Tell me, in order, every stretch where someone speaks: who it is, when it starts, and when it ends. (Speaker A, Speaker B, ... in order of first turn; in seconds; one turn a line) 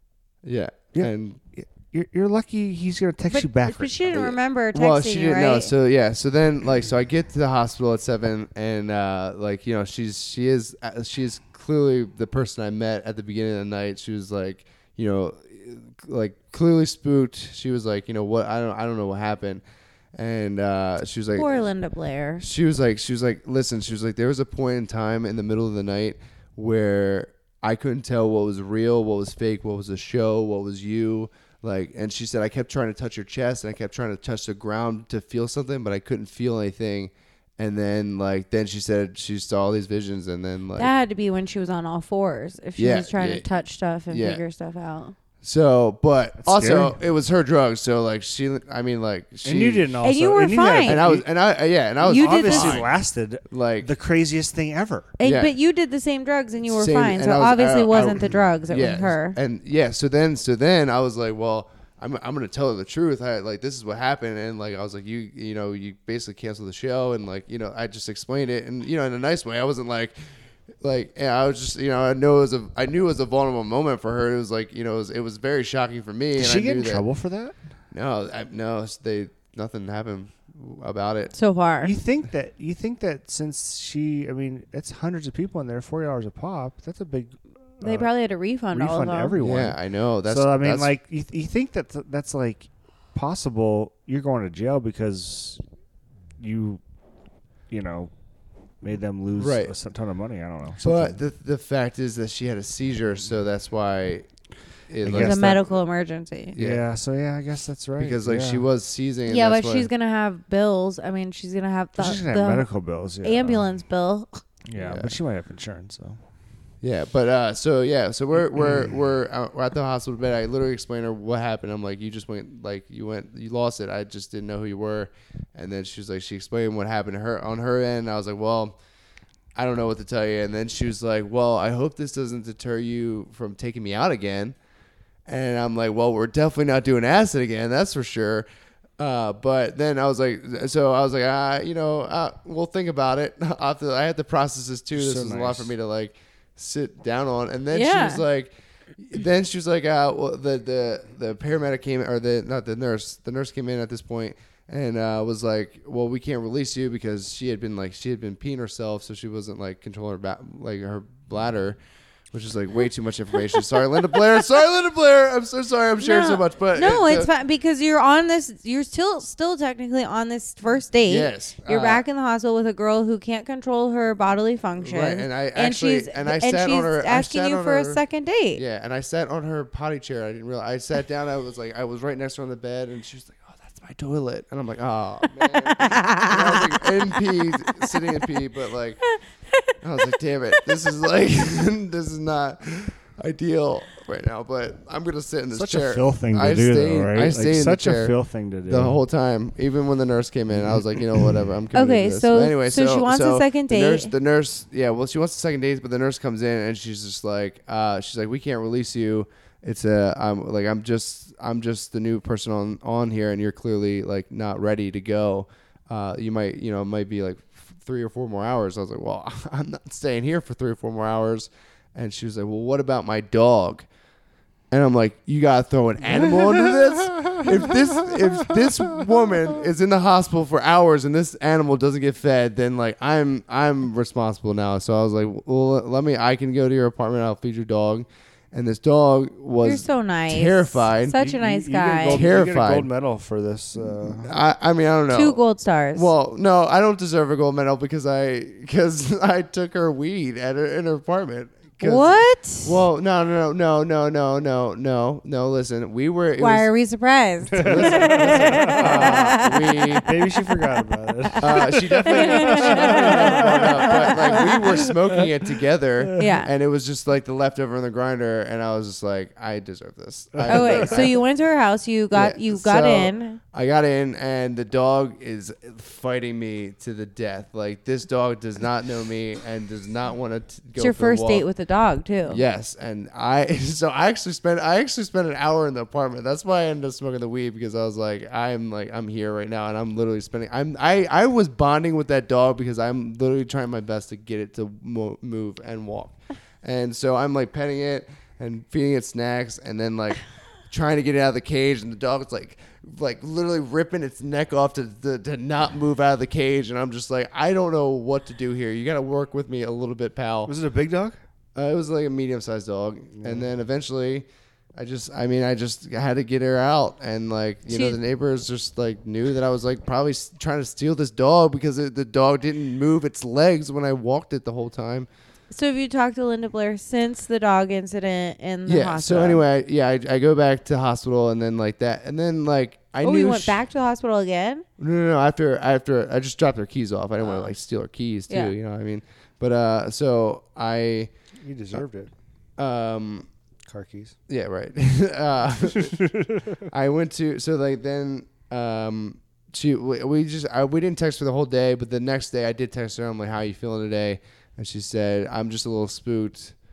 Speaker A: 0.4-1.4
Speaker B: 0.9-4.0
Speaker C: 3.3-5.7
Speaker A: 4.1-19.6
Speaker A: 20.1-21.6
Speaker C: 21.4-22.4
Speaker A: 22.4-40.9
Speaker C: 40.8-45.1
Speaker A: 42.8-43.5
Speaker A: 44.1-44.4
Speaker A: 45.4-49.9
Speaker B: 46.4-47.0
Speaker B: 49.4-51.2
Speaker C: 50.0-51.0
Speaker A: 50.9-52.9
Speaker C: 52.0-52.9
Speaker B: 52.1-55.2
Speaker A: 53.5-53.9
Speaker C: 55.2-59.4
Speaker A: 55.2-55.5
Speaker A: 56.7-70.2
Speaker A: 70.8-77.0
Speaker B: 76.4-77.6
Speaker A: 77.9-81.3
Speaker C: 81.3-81.9
Speaker B: 81.8-88.1
Speaker C: 87.8-89.4
Speaker B: 88.7-95.6
Speaker A: 89.4-90.9
Speaker B: 96.4-96.8
Speaker B: 97.7-98.1
Speaker B: 98.8-101.2
Speaker A: 99.4-99.7
Speaker A: 100.8-104.3
Speaker A: 104.9-105.7
Speaker B: 105.0-105.6
Speaker C: 105.1-106.6
Speaker A: 106.5-106.8
Speaker B: 106.6-108.6
Speaker A: 108.0-109.9
Speaker C: 109.2-112.7
Speaker B: 112.0-113.6
Speaker C: 113.2-114.4
Speaker B: 114.7-116.2
Speaker A: 114.8-115.2
Speaker A: 116.8-128.8
Speaker A: 129.6-134.6
Speaker A: 135.3-138.4
Speaker A: 139.0-161.8
Speaker B: 144.9-145.7
Speaker C: 147.7-148.2
Speaker A: 162.3-167.3
Speaker C: 166.0-178.6
Speaker A: 171.1-172.0
Speaker A: 174.8-178.0
Speaker A: 178.6-189.1
Speaker C: 185.4-186.9
Speaker C: 187.6-188.0
Speaker A: 189.8-198.1
Speaker C: 190.0-190.8
Speaker B: 195.5-199.0
Speaker A: 198.7-223.9
Speaker C: 201.7-204.1
Speaker A: 224.7-241.3
Speaker C: 239.6-242.2
Speaker B: 241.2-244.3
Speaker A: 242.1-242.9
Speaker A: 243.8-245.4
Speaker C: 245.1-246.1
Speaker A: 245.9-256.7
Speaker C: 251.8-252.8
Speaker C: 256.4-260.0
Speaker B: 257.5-259.0
Speaker A: 257.6-260.1
Speaker B: 260.0-265.2
Speaker C: 261.4-264.5
Speaker A: 261.4-271.2
Speaker C: 266.2-266.5
Speaker B: 270.3-271.1
Speaker C: 270.5-273.4
Speaker A: 272.1-281.4
Speaker C: 280.8-282.4
Speaker A: 282.3-310.5
Speaker B: 310.4-311.2
Speaker A: 311.6-325.1
Speaker B: 313.1-313.5
Speaker C: 317.7-318.0
Speaker C: 325.5-329.4
Speaker A: 328.6-333.6
Speaker C: 333.0-334.6
Speaker A: 334.8-341.1
Speaker C: 337.2-337.5
Speaker C: 338.3-338.6
Speaker B: 341.4-342.1
Speaker A: 342.6-343.3
Speaker B: 343.7-344.1
Speaker A: 344.3-346.0
Speaker B: 345.9-346.6
Speaker A: 346.6-356.6